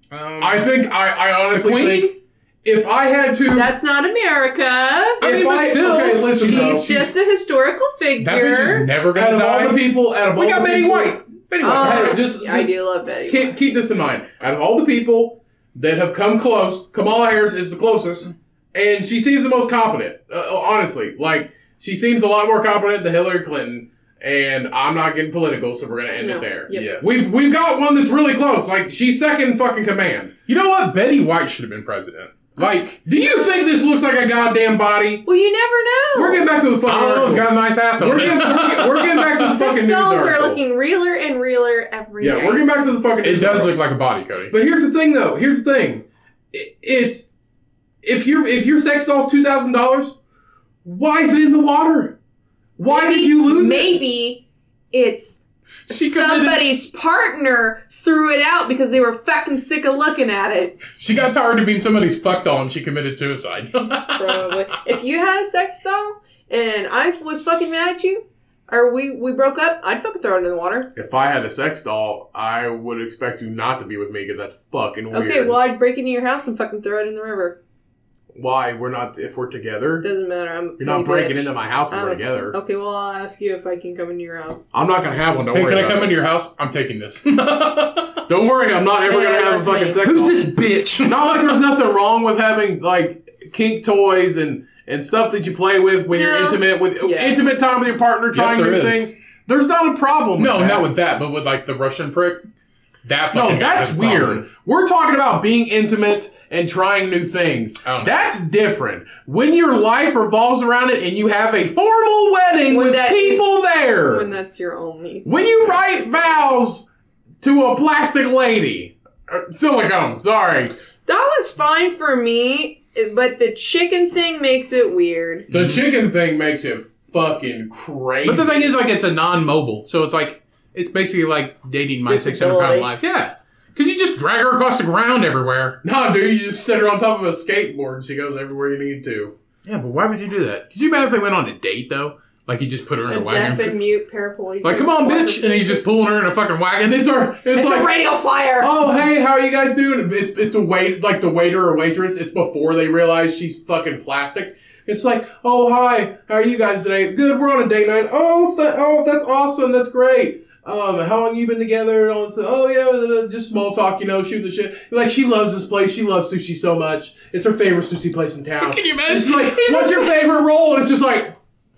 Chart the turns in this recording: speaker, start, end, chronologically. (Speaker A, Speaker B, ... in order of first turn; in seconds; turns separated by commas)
Speaker A: 0.1-0.7, Speaker B: 0.4-3.7, Speaker A: 1.5-2.1, Speaker C: 3.5-5.2, Speaker B: 5.2-6.8, Speaker A: 5.2-7.1, Speaker C: 5.8-8.9, Speaker A: 8.2-12.2, Speaker B: 9.1-12.7, Speaker C: 11.6-13.6, Speaker B: 13.3-30.4, Speaker C: 26.2-27.0, Speaker A: 26.7-27.2, Speaker A: 30.5-33.0, Speaker B: 33.0-35.2, Speaker C: 35.2-36.4, Speaker B: 36.1-40.6, Speaker A: 36.9-39.4, Speaker C: 39.4-42.6, Speaker B: 42.2-43.8, Speaker A: 43.2-44.5, Speaker B: 44.5-47.3, Speaker B: 48.0-50.1, Speaker B: 50.8-52.2, Speaker B: 52.8-54.0, Speaker C: 52.9-60.8, Speaker A: 55.9-56.7, Speaker A: 61.0-64.5, Speaker C: 64.1-70.9, Speaker B: 71.0-75.6, Speaker C: 75.1-77.6, Speaker B: 78.3-80.1, Speaker C: 80.0-84.7, Speaker B: 80.8-82.5, Speaker B: 84.7-86.1, Speaker A: 85.5-88.2, Speaker B: 88.3-90.5, Speaker C: 89.0-90.0, Speaker A: 90.0-91.2, Speaker B: 91.0-100.9, Speaker C: 96.1-97.4, Speaker A: 98.3-99.0, Speaker A: 100.4-102.4, Speaker A: 103.0-104.4, Speaker B: 103.3-114.3, Speaker A: 107.8-108.2, Speaker C: 112.7-115.3, Speaker B: 115.2-116.9, Speaker B: 117.4-120.7, Speaker C: 121.0-125.5, Speaker A: 125.5-125.8, Speaker B: 125.5-128.7, Speaker A: 128.2-135.8, Speaker C: 132.1-132.9, Speaker B: 135.8-139.3, Speaker A: 139.6-143.8, Speaker C: 143.1-145.8, Speaker A: 144.6-147.3, Speaker B: 147.0-147.9, Speaker C: 147.5-148.8, Speaker B: 148.6-171.3, Speaker A: 168.6-170.2